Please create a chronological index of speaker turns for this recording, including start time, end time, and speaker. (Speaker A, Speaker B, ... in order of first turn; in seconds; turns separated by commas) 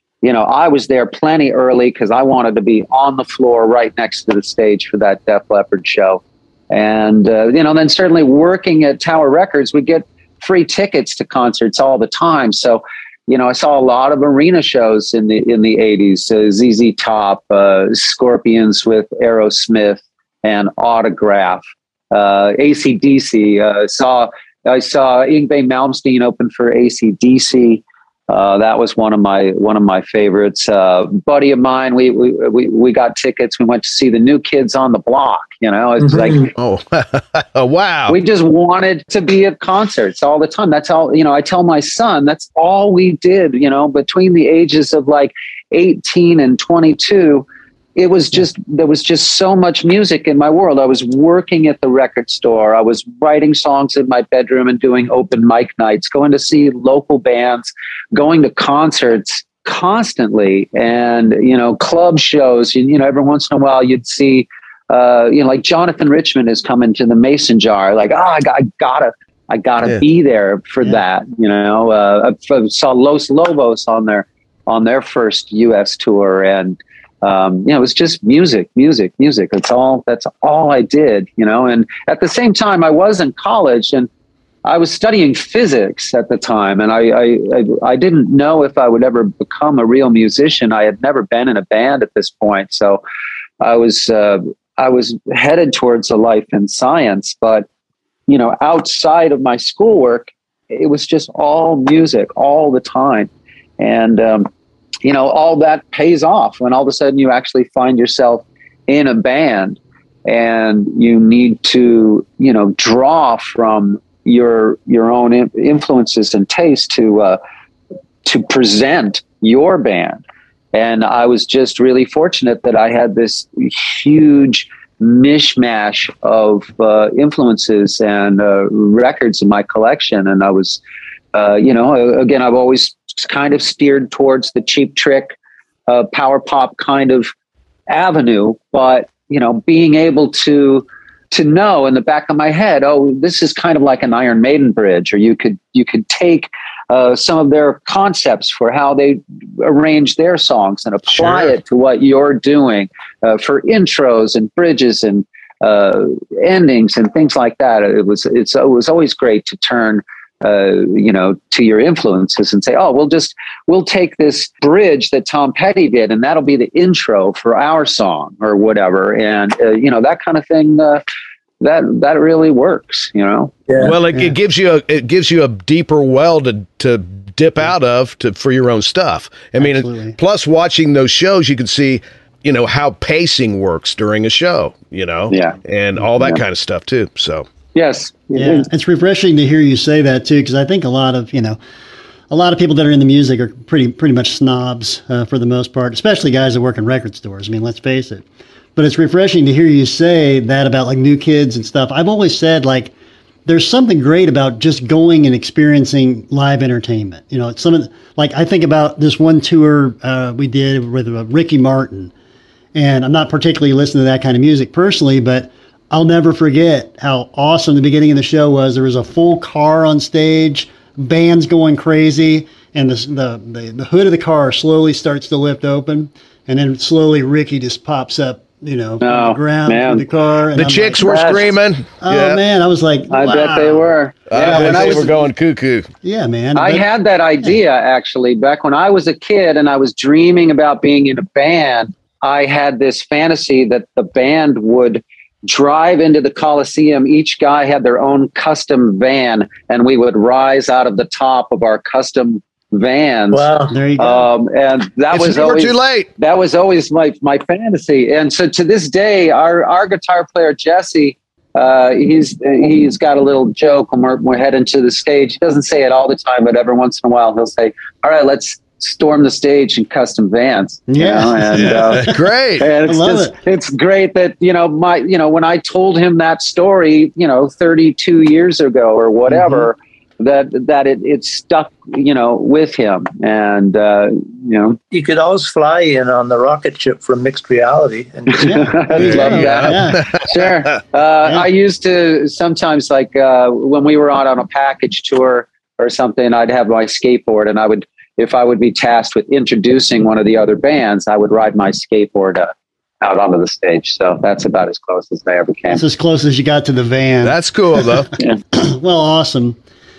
Speaker A: 0.2-36.5, Speaker B: 36.1-36.5, Speaker C: 36.6-38.2, Speaker A: 38.1-84.1, Speaker A: 84.6-93.0, Speaker A: 93.6-97.6, Speaker A: 98.3-104.5, Speaker A: 105.0-117.4, Speaker A: 118.2-120.2, Speaker A: 120.7-130.8, Speaker A: 131.3-135.3, Speaker A: 135.9-137.3, Speaker A: 137.9-171.0, Speaker C: 151.1-151.5, Speaker A: 171.6-173.5, Speaker B: 173.7-173.9, Speaker C: 173.8-187.4, Speaker D: 174.1-174.4, Speaker D: 179.6-180.2, Speaker A: 185.3-185.6, Speaker A: 187.7-188.7, Speaker D: 188.3-191.6, Speaker D: 192.3-198.2, Speaker D: 198.8-202.9, Speaker D: 203.4-212.1, Speaker D: 212.7-231.4, Speaker A: 229.0-230.0, Speaker C: 230.5-232.4, Speaker D: 232.0-235.2, Speaker A: 233.1-235.2, Speaker C: 234.3-235.9, Speaker D: 236.0-236.8, Speaker A: 236.5-284.8, Speaker B: 253.3-253.7, Speaker D: 253.7-254.3, Speaker C: 255.1-256.1, Speaker D: 270.9-272.2, Speaker C: 271.6-272.7, Speaker D: 272.8-273.4, Speaker D: 279.3-279.7, Speaker B: 284.9-289.0, Speaker A: 288.3-302.5, Speaker D: 288.4-290.2, Speaker C: 288.9-290.2, Speaker A: 303.0-305.8, Speaker D: 305.7-309.6, Speaker C: 307.2-308.1